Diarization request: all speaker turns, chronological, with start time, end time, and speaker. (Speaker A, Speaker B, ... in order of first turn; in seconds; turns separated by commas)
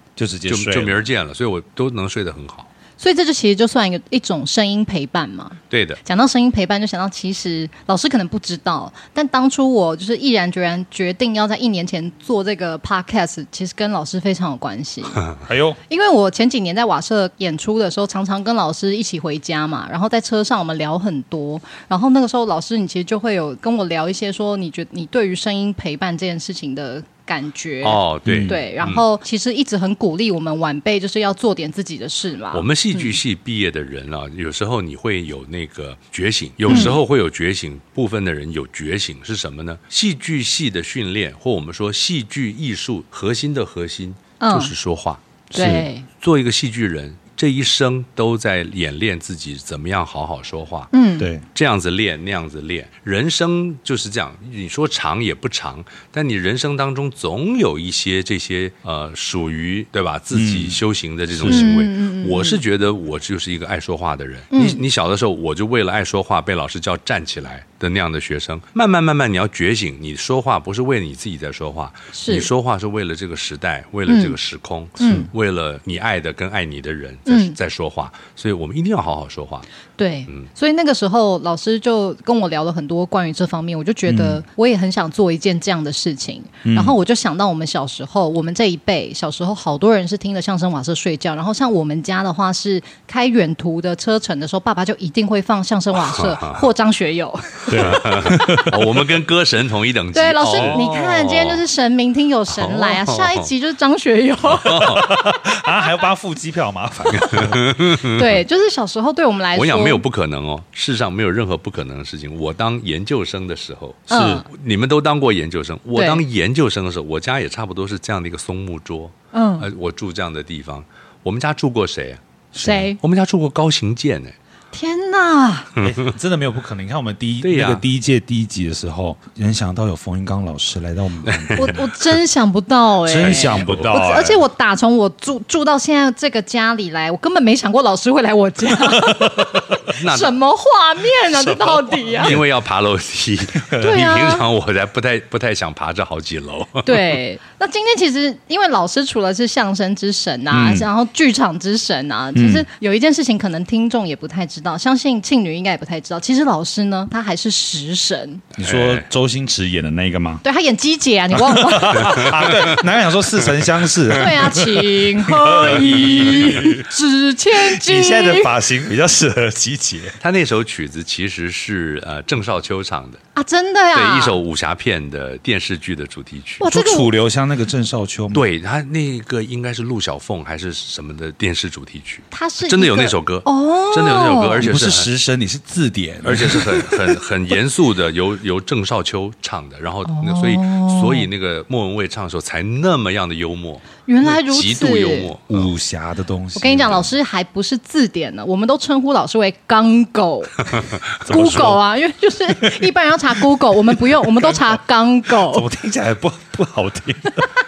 Speaker A: 0.2-1.0, Speaker B: 0.5-2.7, Speaker C: 3.0-15.2, Speaker B: 5.7-6.0, Speaker A: 15.5-15.8, Speaker C: 15.9-33.1, Speaker B: 27.8-29.0, Speaker A: 28.2-28.6, Speaker B: 32.5-45.2, Speaker A: 36.7-36.9, Speaker C: 36.7-37.0, Speaker C: 44.4-44.7, Speaker A: 45.5-45.9, Speaker C: 45.5-46.0, Speaker B: 46.2-50.9, Speaker C: 50.9-51.3, Speaker A: 51.2-51.5, Speaker B: 51.5-79.7, Speaker A: 60.3-60.8, Speaker A: 61.3-61.8, Speaker C: 61.5-62.6, Speaker C: 64.5-64.8, Speaker C: 72.2-72.5, Speaker C: 74.1-74.3, Speaker C: 75.0-75.3, Speaker A: 75.0-75.3, Speaker C: 77.3-77.5, Speaker C: 80.0-98.6, Speaker A: 84.1-84.4, Speaker A: 86.6-87.0, Speaker B: 96.0-96.7, Speaker A: 97.7-98.8, Speaker B: 97.7-101.6, Speaker C: 100.1-104.8, Speaker A: 100.5-100.9, Speaker B: 102.5-103.5, Speaker B: 104.5-105.1, Speaker A: 104.7-107.8, Speaker B: 107.1-108.4, Speaker C: 108.2-110.0, Speaker B: 109.5-122.2, Speaker C: 114.1-114.5, Speaker A: 114.1-114.5, Speaker C: 116.0-116.2, Speaker C: 119.3-119.7, Speaker A: 122.5-122.9, Speaker C: 122.6-123.0, Speaker B: 123.0-124.3, Speaker C: 124.7-125.7, Speaker B: 125.8-126.1, Speaker A: 125.8-131.8, Speaker B: 127.4-127.8, Speaker B: 131.3-131.7, Speaker C: 131.6-142.3, Speaker A: 133.1-134.4, Speaker B: 133.1-134.0, Speaker A: 138.8-139.7, Speaker B: 140.0-140.3, Speaker A: 141.3-142.5, Speaker B: 142.2-147.2, Speaker A: 143.6-143.9, Speaker C: 143.8-144.4, Speaker C: 146.8-158.4, Speaker A: 150.5-150.9, Speaker A: 152.3-152.7, Speaker A: 158.6-160.4, Speaker B: 158.6-159.1, Speaker C: 160.4-162.3, Speaker A: 161.3-166.9, Speaker B: 162.1-162.6, Speaker C: 164.1-168.5, Speaker B: 165.7-166.6, Speaker A: 167.5-170.2, Speaker B: 170.2-173.2, Speaker C: 173.3-174.4, Speaker B: 173.9-176.6, Speaker C: 176.6-177.1, Speaker A: 176.6-178.4, Speaker B: 178.3-185.1, Speaker C: 182.3-184.6, Speaker A: 184.6-187.2, Speaker B: 186.2-195.7, Speaker C: 190.1-191.3, Speaker C: 194.1-195.3, Speaker A: 195.5-197.1, Speaker C: 196.6-205.7, Speaker B: 200.7-201.8, Speaker A: 201.3-201.8, Speaker A: 204.1-204.6, Speaker A: 205.4-207.5